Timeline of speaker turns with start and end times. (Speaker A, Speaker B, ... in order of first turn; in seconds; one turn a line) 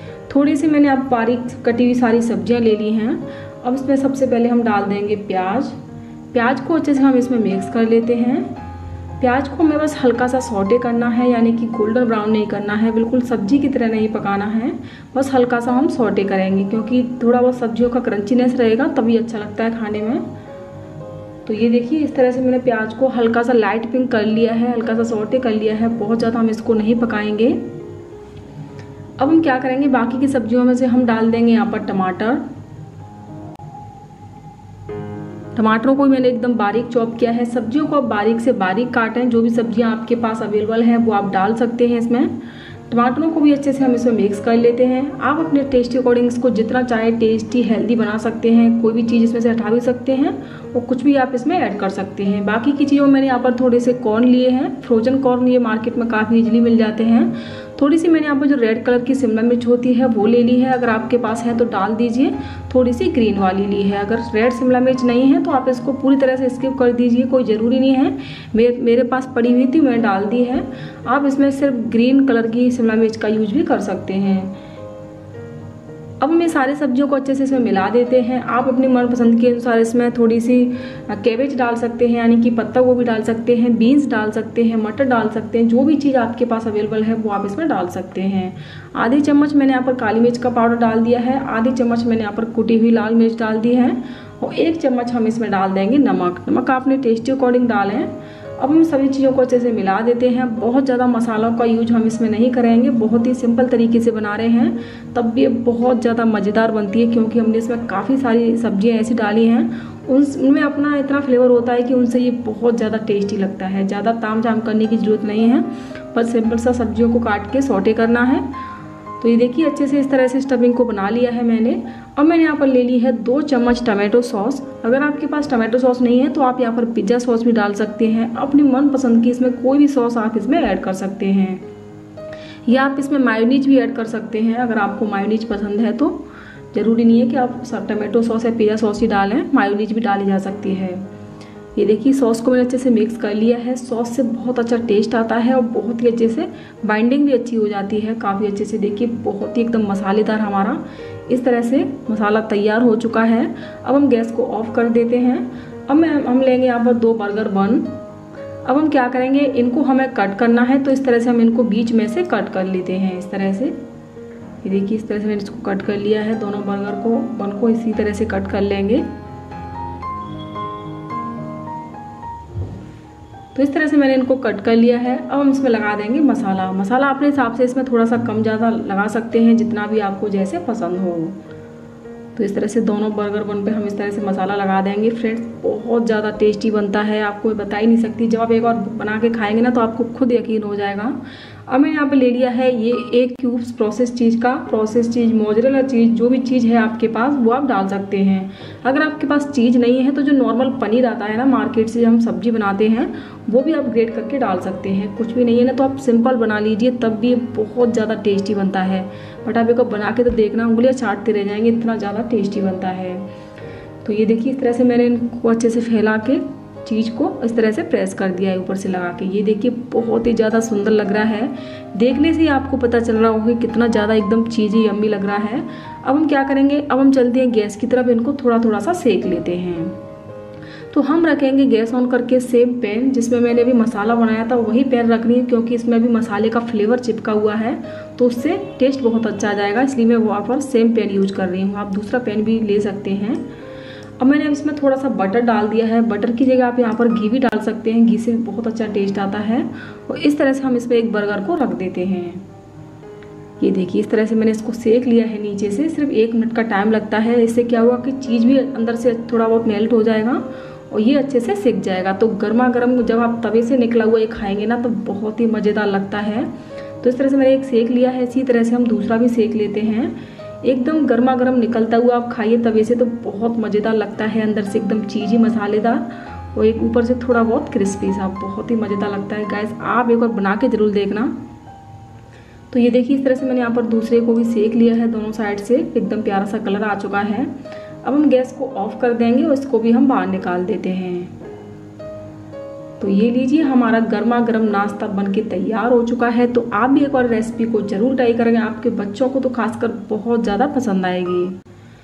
Speaker A: 0.3-5.8
Speaker A: 6.3-8.5
Speaker A: 9.2-20.2
Speaker A: 21.4-27.6
Speaker A: 29.2-32.4
Speaker A: 35.5-42.3
Speaker A: 42.9-74.6
Speaker A: 76.2-118.5
Speaker A: 119.2-131.6
Speaker A: 132.7-136.2
Speaker A: 136.7-141.0
Speaker A: 141.8-157.9
Speaker A: 158.7-163.8
Speaker A: 164.6-169.1
Speaker A: 173.6-181.4
Speaker A: 182.3-213.3
Speaker A: 214.0-230.0
Speaker A: 230.9-243.4
Speaker A: 244.2-252.4
Speaker A: 253.6-281.4
Speaker A: 282.7-291.3
Speaker A: 293.0-301.6